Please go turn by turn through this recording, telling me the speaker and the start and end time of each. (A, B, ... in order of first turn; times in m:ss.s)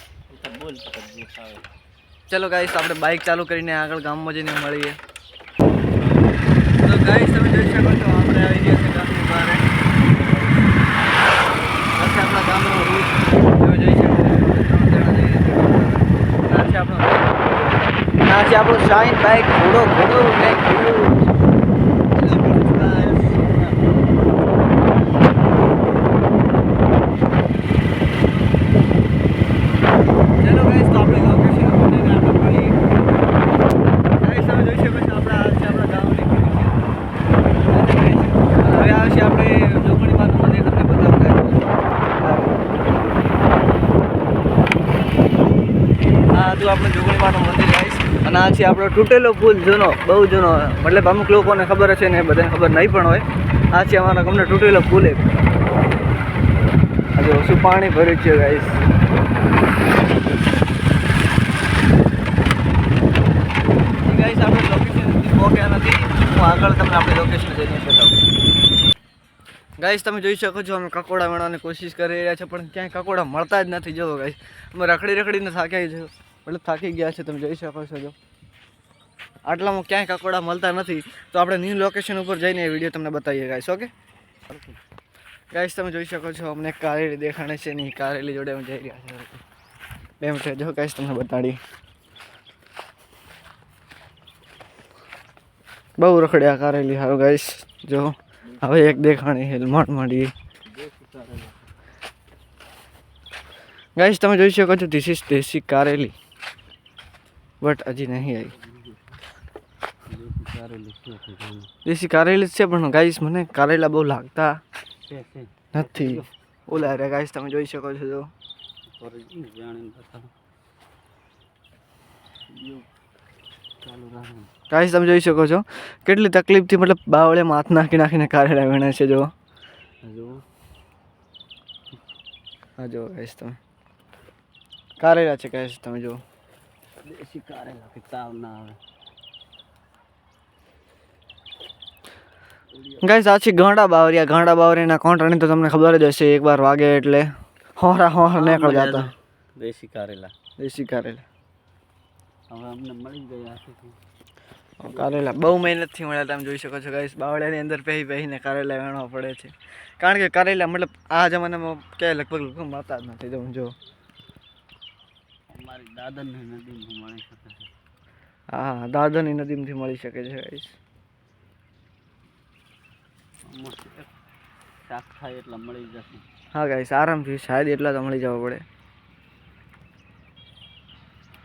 0:00.3-0:01.6 A
0:02.3-0:05.0 B
0:06.8-0:09.8 B
0:11.9-0:17.4 B
0:18.2-0:21.2 B
0:22.2-0:24.0 A
0:22.2-0:23.1 B
0:30.4-0:32.8 B
0:34.2-0:36.8 B
0:37.6-0:42.6 B
0:46.3-0:55.3 B
0:57.2-0:58.8 B
1:04.0-1:08.1 B
1:09.8-1:18.1 B
1:19.4-1:23.9 B
1:24.5-1:24.8 A
1:25.5-1:29.4 B
1:30.2-1:31.6 B
1:36.0-1:40.3 B
1:40.7-1:41.6 A
1:44.0-1:46.1 B
1:47.6-1:48.5 B
1:48.3-1:49.1 A
1:50.1-1:51.7 A
1:51.8-1:54.6 B
1:55.1-1:56.3 A
1:55.7-1:58.3 B
1:58.9-2:00.3 A
2:02.5-2:02.9 A
2:03.8-2:04.5 A
2:04.7-2:09.3 B
2:10.0-2:10.4 A
2:12.8-2:13.6 B
2:15.0-2:16.2 B
2:17.0-2:18.8 A
2:22.7-2:23.2 A
2:23.0-2:29.1 B
2:28.3-2:30.3 A
2:30.6-2:31.2 B
2:32.5-2:34.0 A
2:34.8-2:43.7 B
2:34.8-2:35.3 A
2:45.5-2:47.7 A
2:48.5-2:50.8 B
2:53.4-2:54.1 A
2:54.8-2:56.2 A
2:56.5-2:58.6 B